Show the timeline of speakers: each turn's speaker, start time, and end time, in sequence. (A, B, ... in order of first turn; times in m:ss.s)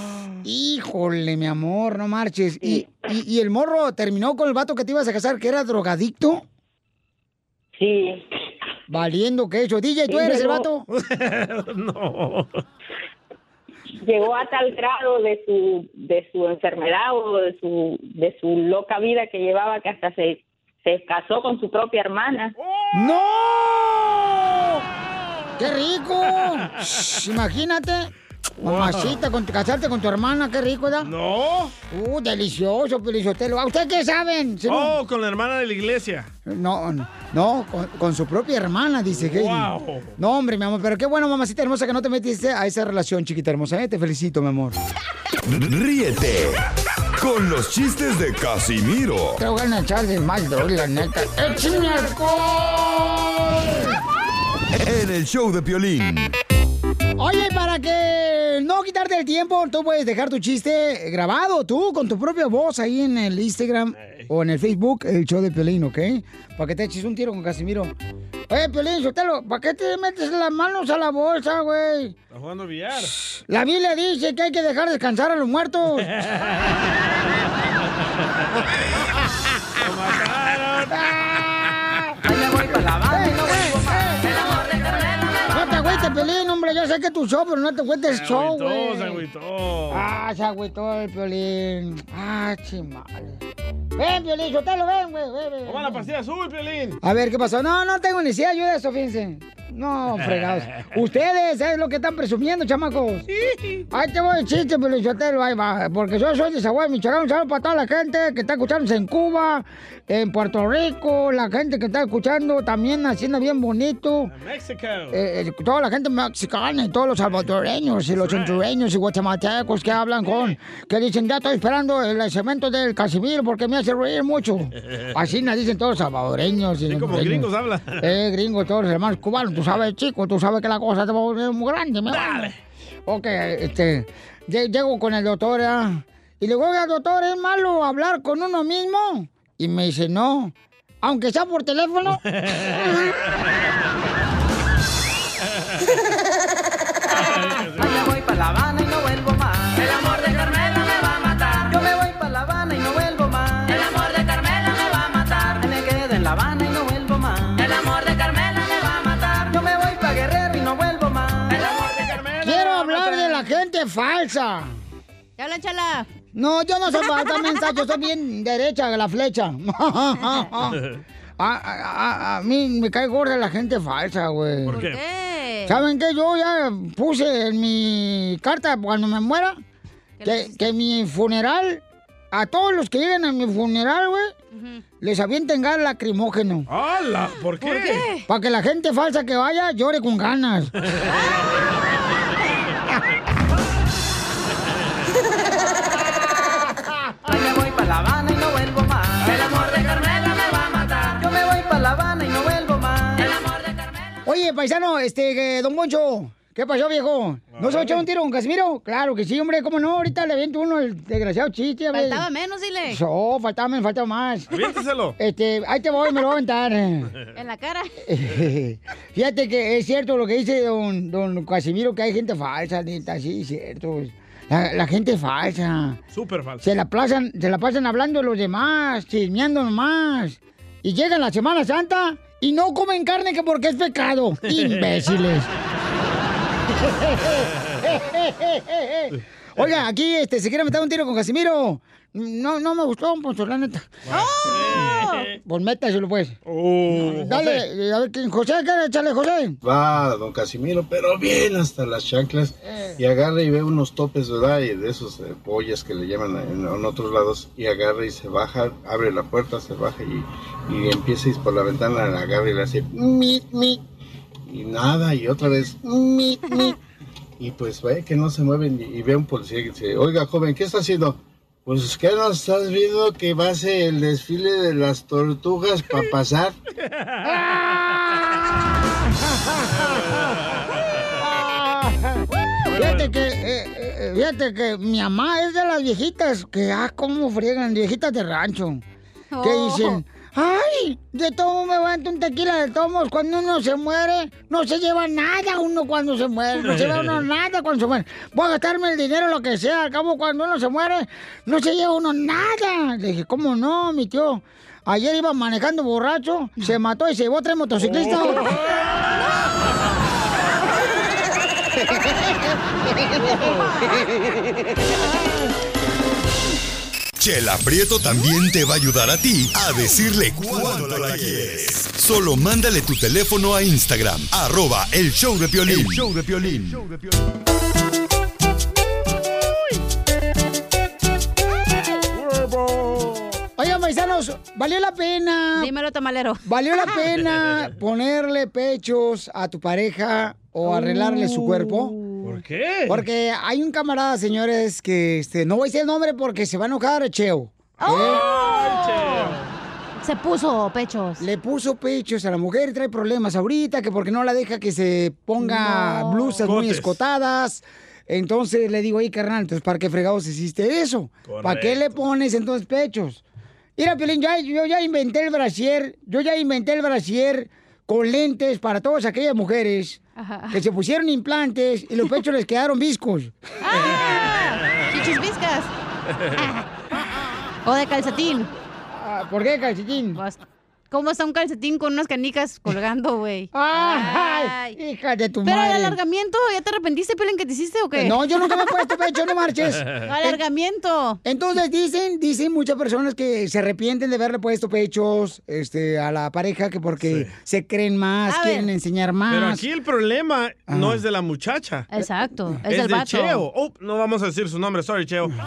0:00.4-0:06.4 A
0:02.6-0:02.9 B
0:07.8-0:08.2 B
0:08.9-0:10.8 A
0:10.1-0:10.6 B
0:10.9-0:12.6 C
0:14.0-0:22.5 B
0:22.6-0:23.7 C
0:22.9-0:24.8 A
0:25.6-0:31.1 A
0:26.4-0:26.9 C
0:28.6-0:29.2 C
0:31.0-0:31.7 C
0:31.9-0:35.0 A
0:34.7-0:36.3 C
0:36.4-0:44.8 A
0:39.1-0:40.1 C
0:45.4-0:46.6 D
0:47.2-0:49.4 D
0:49.4-0:54.0 A
0:54.7-0:56.3 D
0:57.2-1:07.9 A
1:04.0-1:04.3 C
1:08.5-1:12.2 A
1:12.3-1:13.1 C
1:13.0-1:16.1 A
1:16.0-1:16.9 C
1:19.8-1:21.7 C
1:21.0-1:21.4 A
1:22.2-1:25.4 E
1:23.1-1:24.9 A
1:25.5-1:29.2 A
1:28.1-1:30.0 C
1:29.9-1:33.4 A
1:34.0-1:36.1 A
1:35.6-1:37.0 C
1:37.0-1:43.3 A
1:40.2-1:40.9 C
1:43.5-1:43.8 C
1:43.9-1:54.3 A
1:54.3-1:55.2 C
1:55.1-2:12.5 A
1:58.2-1:58.6 C
2:00.2-2:00.5 C
2:06.9-2:08.1 C
2:12.1-2:12.6 C
2:13.0-2:22.9 A
2:22.1-2:23.0 C
2:27.1-2:28.0 C
2:27.8-2:42.0 E
2:41.7-2:43.4 C
2:42.4-2:44.7 A
2:45.4-2:46.1 F
2:46.3-2:50.8 A
2:46.9-2:47.9 F
2:50.2-2:50.5 F
2:51.4-2:54.8 A
2:54.7-2:55.0 C
2:54.7-2:55.8 F
2:55.6-2:59.6 A
3:00.2-3:00.7 F
3:00.2-3:04.3 A
3:04.5-3:04.8 F
3:05.0-3:06.7 A
3:06.7-3:08.0 C
3:07.6-3:08.2 F
3:08.3-3:10.7 A
3:11.1-3:11.4 F
3:17.2-3:23.6 E
3:24.2-3:32.2 A
3:27.5-3:28.0 C
3:31.9-3:33.0 F
3:32.9-3:34.5 A
3:34.5-3:35.2 C
3:35.2-3:37.1 A
3:37.3-3:38.0 F
3:38.0-3:46.0 A
3:46.1-3:46.6 C
3:46.6-3:55.5 A
3:54.5-3:54.9 C
3:56.7-4:04.0 A
3:59.1-3:59.7 C
4:04.1-4:05.1 C
4:04.1-4:05.3 F
4:04.5-4:06.4 A
4:06.4-4:07.6 C
4:06.9-4:09.6 A
4:09.6-4:23.8 G
4:24.5-4:26.7 G
4:27.4-4:36.5 G
4:37.0-4:37.9 C
4:39.0-4:40.4 A
4:39.7-4:40.8 C
4:41.2-4:48.8 A
4:42.7-4:43.1 C
4:49.3-4:50.0 F
4:49.4-5:08.5 A
4:56.7-4:57.0 C
5:17.2-5:26.9 D
5:32.1-5:33.4 C
5:33.6-5:35.7 A
5:35.5-5:37.1 F
5:36.4-5:42.0 A
5:40.7-5:42.4 F
5:42.2-5:43.0 C
5:42.9-5:48.2 A
5:47.8-5:49.5 C
5:47.8-5:49.3 F
5:50.0-5:51.2 F
5:51.2-6:03.2 A
5:55.4-5:56.5 F
5:56.4-5:57.0 C
6:01.2-6:02.0 C
6:03.8-6:13.8 A
6:10.2-6:10.6 F
6:13.6-6:15.7 F
6:14.2-6:14.8 C
6:16.4-6:16.7 F
6:17.6-6:18.5 F
6:18.9-6:20.2 A
6:20.1-6:24.8 F
6:23.5-6:26.0 A
6:25.4-6:29.3 F
6:27.9-6:30.4 A
6:30.0-6:31.2 F
6:31.2-6:39.6 A
6:37.0-6:37.3 C
6:38.3-6:38.7 F
6:39.3-6:41.9 C
6:40.7-6:41.0 A
6:41.9-6:43.4 F
6:42.7-6:45.3 C